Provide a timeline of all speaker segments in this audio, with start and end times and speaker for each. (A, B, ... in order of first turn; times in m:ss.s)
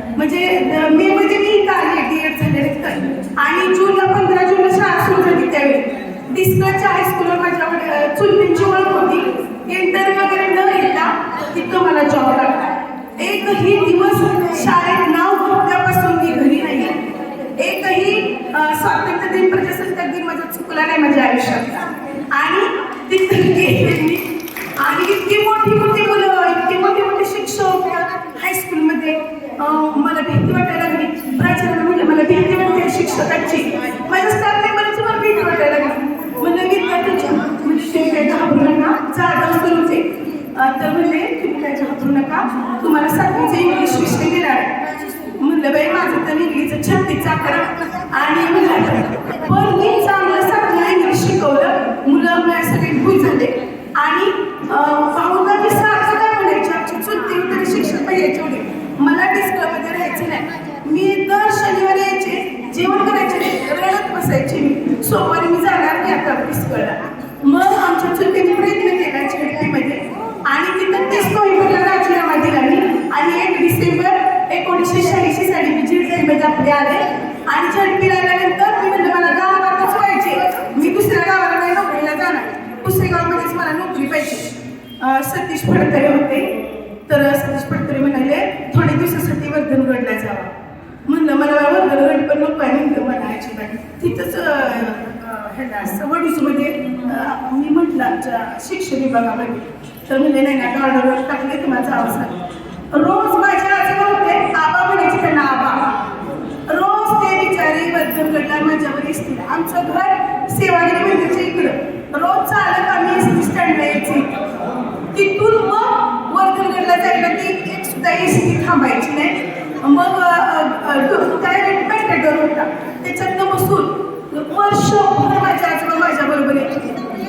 0:00.2-1:26.5 A
1:27.1-1:30.5 A
1:31.1-1:42.4 A
1:42.9-1:46.0 A
1:46.7-1:54.3 A
1:55.1-2:07.0 A